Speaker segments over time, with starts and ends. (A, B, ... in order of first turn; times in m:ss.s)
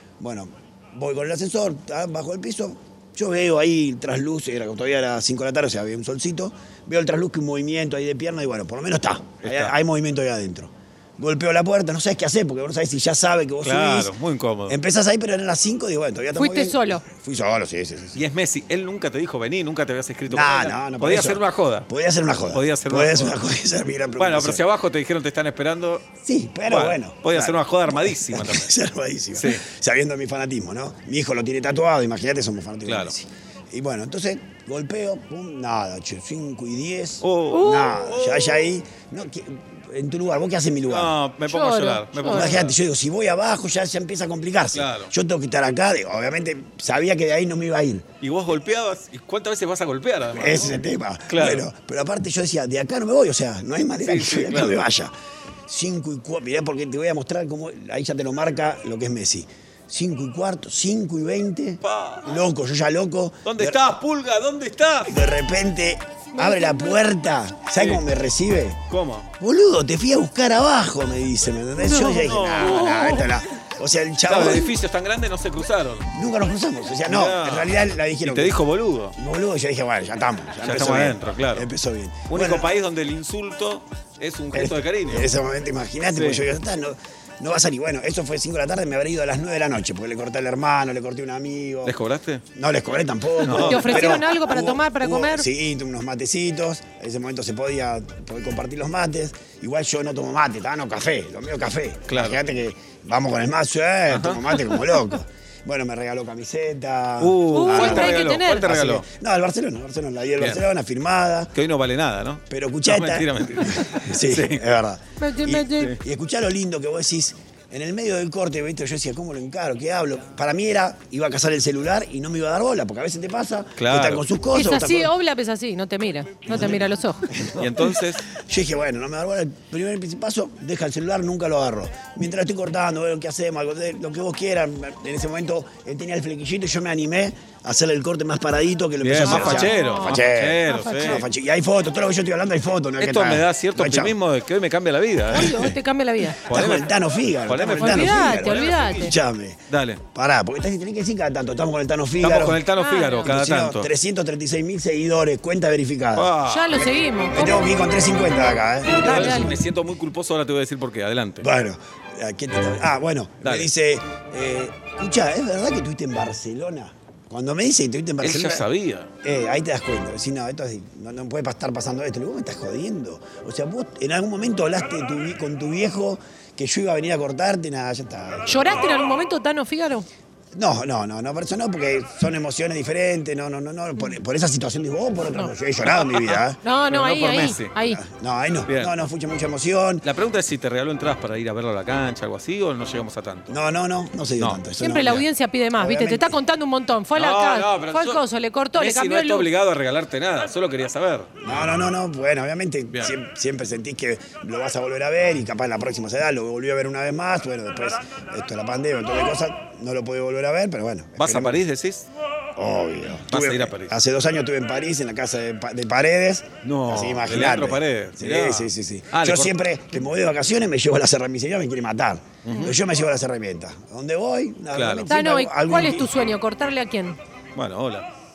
0:00.2-0:14.1 A
0:09.4-0:09.7 B
0:13.6-0:14.8 B
0:14.7-0:18.2 A
0:16.4-0:17.0 C
0:18.2-0:21.9 B
0:20.3-0:24.6 A
0:22.5-0:23.4 B
0:24.2-0:26.0 B
0:26.2-0:41.2 A
0:26.7-0:28.7 B
0:29.4-0:29.6 B
0:32.8-0:33.1 B
0:37.2-0:38.7 B
0:37.5-0:38.0 C
0:40.9-0:42.8 B
0:41.5-0:42.6 C
0:42.2-0:48.0 A
0:44.7-0:45.1 B
0:48.2-0:51.6 B
0:50.3-0:55.1 A
0:54.0-0:54.8 B
0:55.7-1:03.8 A
1:01.8-1:02.4 B
1:03.4-1:05.2 B
1:05.1-1:08.8 A
1:06.4-1:06.9 C
1:07.8-1:08.0 B
1:08.9-1:09.3 B
1:09.4-1:14.7 A
1:11.9-1:12.3 C
1:12.0-1:13.4 B
1:14.2-1:16.1 B
1:16.1-1:18.6 A
1:17.0-1:19.2 B
1:19.2-1:22.7 A
1:20.6-1:21.7 B
1:22.3-1:25.3 B
1:24.5-1:32.0 A
1:26.1-1:26.5 B
1:31.8-1:32.4 B
1:32.6-1:51.5 A
1:33.4-1:34.3 B
1:33.5-1:35.4 C
1:42.1-1:42.4 B
1:44.1-1:45.0 B
1:47.2-1:49.0 B
1:47.5-1:48.7 C
1:50.4-1:50.6 B
1:51.5-1:54.7 B
1:52.5-2:05.1 A
1:55.2-1:56.0 C
2:03.8-2:04.3 B
2:04.5-2:07.3 C
2:06.5-2:06.8 A
2:06.5-2:06.8 B
2:07.3-2:24.2 A
2:07.6-2:08.2 B
2:19.0-2:21.2 B
2:19.3-2:21.2 C
2:23.0-2:25.6 B
2:25.3-2:25.8 A
2:25.3-2:26.4 C
2:26.3-2:29.6 A
2:26.5-2:26.9 B
2:27.4-2:29.1 B
2:27.6-2:29.1 C
2:29.7-2:30.0 B
2:30.1-2:32.6 A
2:32.2-2:33.9 B
2:32.8-2:33.4 C
2:33.2-2:39.5 A
2:36.1-2:36.9 B
2:36.4-2:37.7 C
2:39.0-2:39.6 C
2:39.0-2:41.5 B
2:41.4-2:48.7 A
2:43.4-2:43.7 B
2:48.2-2:49.1 B
2:49.2-2:58.9 A
2:58.5-3:00.1 C
3:00.5-3:06.6 A
3:05.9-3:07.7 B
3:06.6-3:08.0 C
3:07.8-3:10.1 A
3:08.7-3:08.9 B
3:10.0-3:13.6 B
3:13.5-3:16.4 A
3:14.4-3:14.6 B
3:14.8-3:19.5 C
3:17.2-3:18.2 B
3:18.7-3:21.9 B
3:21.4-3:31.6 A
3:31.2-3:32.1 B
3:32.6-3:46.1 A
3:33.3-3:33.9 B
3:36.6-3:39.5 B
3:42.4-3:42.8 B
3:44.7-3:45.2 B
3:45.1-3:47.2 C
3:47.6-3:48.1 B